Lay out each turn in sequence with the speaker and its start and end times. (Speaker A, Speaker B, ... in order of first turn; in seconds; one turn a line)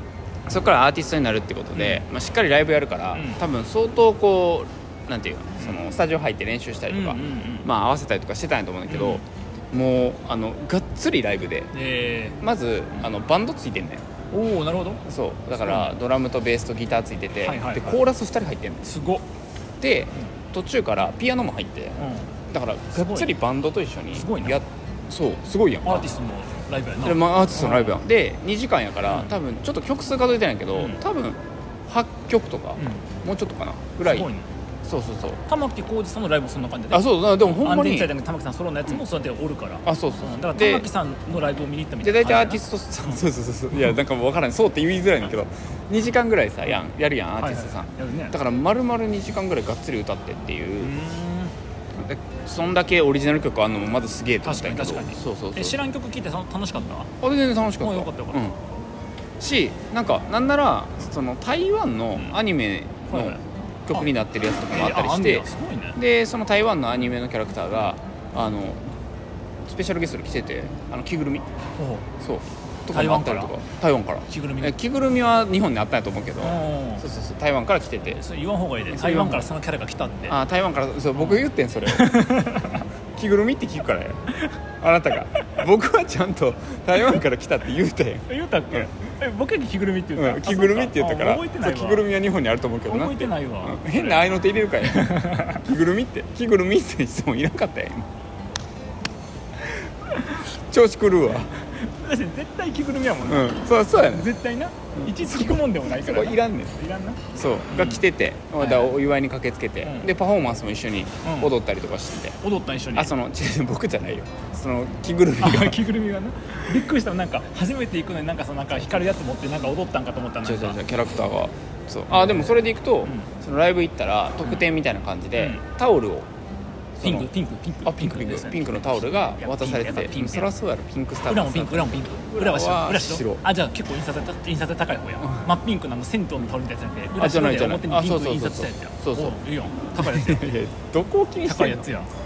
Speaker A: 0.5-11.7
Speaker B: 1.8-2.0
Speaker B: 3.1-3.4
Speaker B: 5.6-5.9
Speaker B: 6.9-7.7
Speaker B: 8.9-9.2
Speaker B: 11.7-12.4
Speaker A: 12.4-14.1
Speaker B: 14.3-15.0
Speaker A: 15.1-18.9
Speaker B: 15.6-15.9
Speaker B: 17.4-18.0
Speaker B: 18.9-19.2
Speaker A: 19.8-26.1
Speaker B: 22.0-22.3
Speaker B: 22.9-23.3
Speaker B: 24.1-24.6
Speaker B: 25.8-28.0
Speaker A: 27.0-34.3
Speaker B: 29.1-29.4
Speaker B: 30.7-31.0
Speaker B: 32.8-33.1
Speaker B: 34.1-34.5
Speaker A: 34.9-35.4
Speaker B: 35.5-43.2
Speaker A: 36.9-38.1
Speaker A: 39.9-40.9
Speaker A: 42.0-50.9
Speaker B: 47.4-48.4
Speaker B: 50.8-51.5
Speaker A: 52.0-55.8
Speaker B: 54.4-57.1
Speaker A: 57.2-58.6
Speaker B: 57.8-58.5
Speaker A: 59.4-68.8
Speaker B: 63.1-63.4
Speaker B: 64.7-66.0
Speaker A: 69.7-71.5
Speaker B: 71.8-72.1
Speaker A: 72.2-78.2
Speaker B: 72.9-73.5
Speaker B: 74.3-74.8
Speaker B: 76.4-77.0
Speaker B: 78.1-80.4
Speaker A: 78.9-79.5
Speaker A: 80.3-82.5
Speaker B: 81.2-82.8
Speaker A: 83.2-88.8
Speaker B: 88.3-92.0
Speaker A: 90.2-98.1
Speaker B: 92.9-95.6
Speaker A: 100.1-101.5
Speaker B: 101.7-108.0
Speaker A: 103.2-104.3
Speaker A: 105.0-106.8
Speaker A: 107.3-112.4
Speaker B: 108.6-109.0
Speaker B: 109.8-110.1
Speaker B: 111.2-111.5
Speaker B: 112.4-113.1
Speaker A: 112.9-115.8
Speaker B: 115.4-120.8
Speaker A: 120.4-126.3
Speaker B: 122.1-123.3
Speaker B: 125.3-125.6
Speaker A: 127.0-127.3
Speaker B: 127.0-130.5
Speaker A: 127.9-133.4
Speaker B: 131.3-140.6
Speaker A: 137.2-139.4
Speaker A: 139.9-141.8
Speaker B: 141.4-142.1